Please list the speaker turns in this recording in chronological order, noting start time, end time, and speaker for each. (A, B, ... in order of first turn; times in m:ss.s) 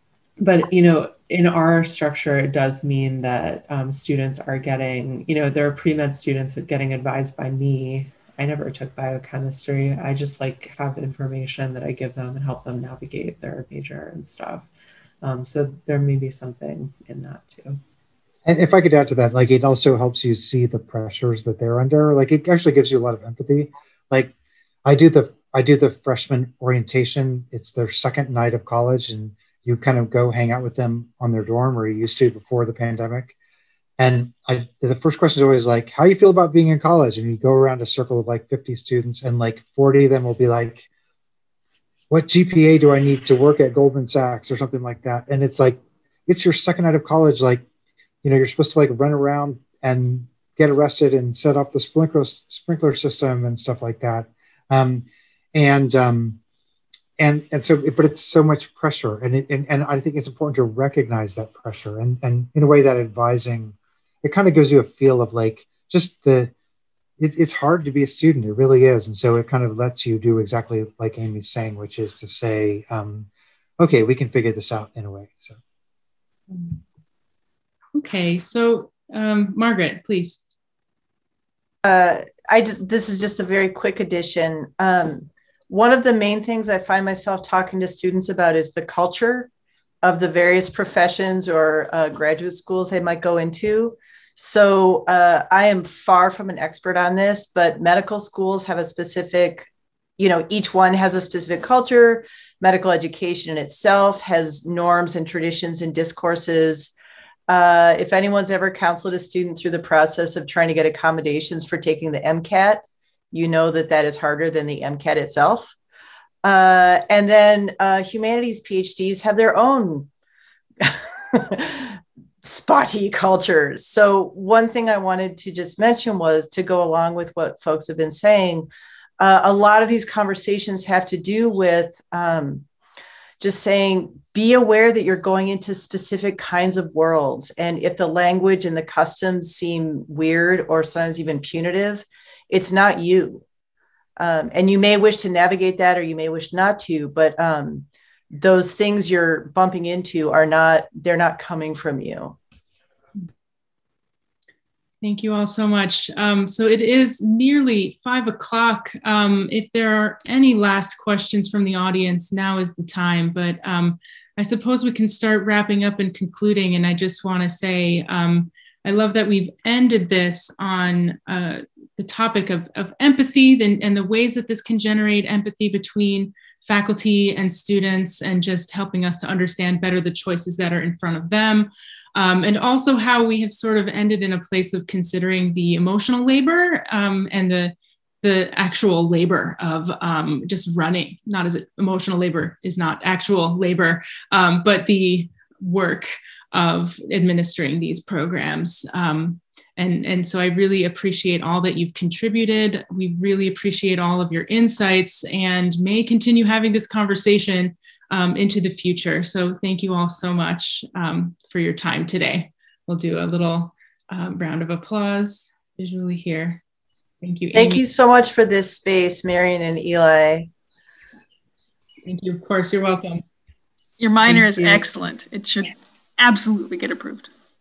0:00.4-0:14.7 A
0:15.2-0:17.8 A
0:18.4-0:24.3 B
0:24.8-0:33.3 B
0:34.0-0:40.9 B
0:42.1-0:47.6 B
0:48.2-0:56.4 B
0:57.2-1:06.5 B
1:07.2-1:13.3 B
1:13.8-1:15.6 B
1:17.9-1:20.4 C
1:21.8-1:29.5 D
1:30.0-1:46.9 D
1:47.5-1:55.7 D
1:56.4-2:00.1 D
2:00.8-2:08.7 D
2:09.2-2:12.6 D
2:13.4-2:23.4 D
2:24.2-2:32.4 D
2:35.0-3:36.6 C
3:37.2-3:37.8 C
3:37.5-3:40.5 D
3:42.0-3:43.2 C
3:44.0-3:47.3 E
3:44.3-3:44.8 C